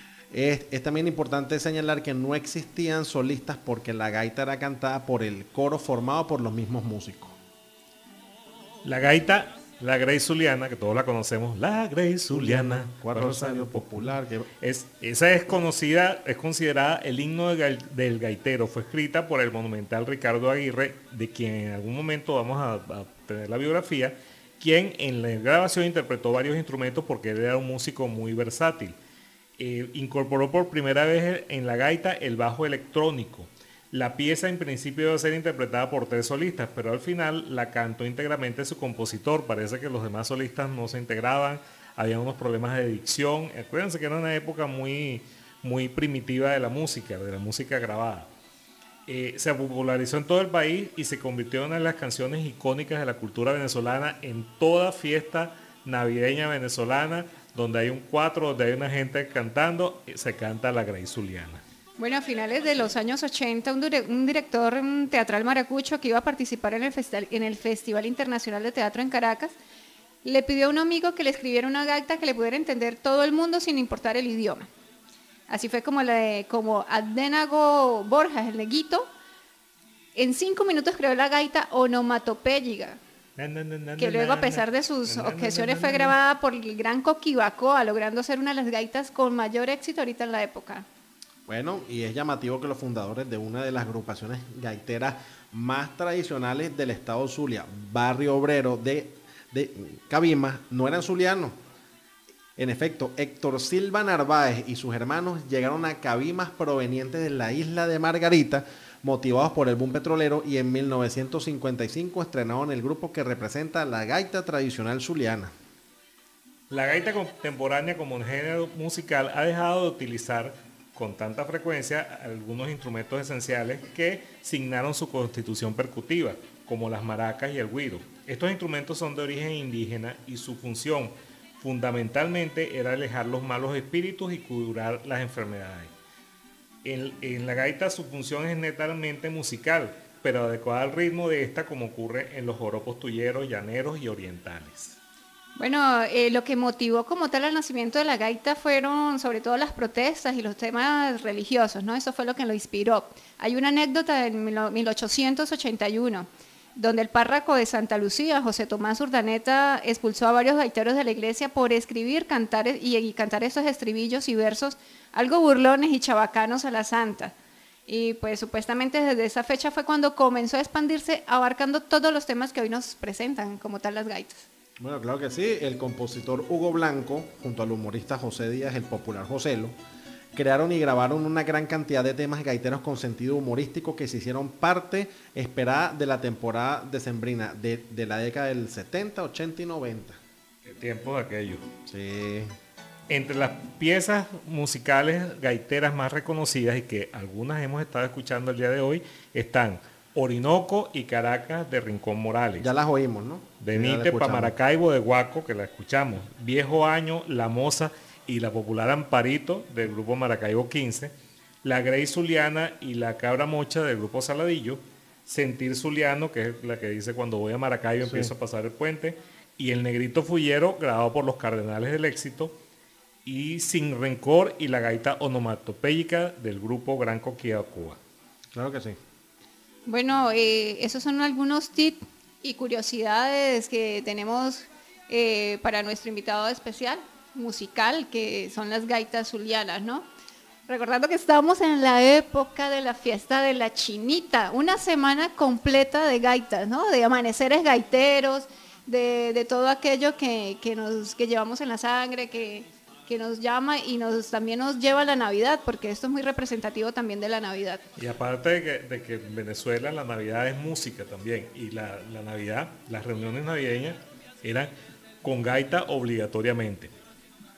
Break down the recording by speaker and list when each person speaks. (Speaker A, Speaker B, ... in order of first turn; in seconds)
Speaker A: 0.3-7.4, 12.3-14.5, 91.5-101.5, 102.6-115.5, 174.8-179.7, 180.3-190.2, 191.9-192.5, 202.6-204.5, 228.5-229.0
Speaker B: 8.8-29.0, 29.6-48.3, 49.1-61.6, 83.4-86.2, 116.7-135.9, 136.8-145.0, 190.7-191.6, 193.1-202.7, 203.6-211.1, 211.6-222.6, 223.2-228.0, 258.0-264.7, 265.2-266.9
Speaker C: 62.0-69.5, 70.2-74.7, 75.5-79.1, 80.2-83.0, 84.0-90.9, 145.6-167.3, 167.9-174.5, 229.9-240.1, 240.7-257.8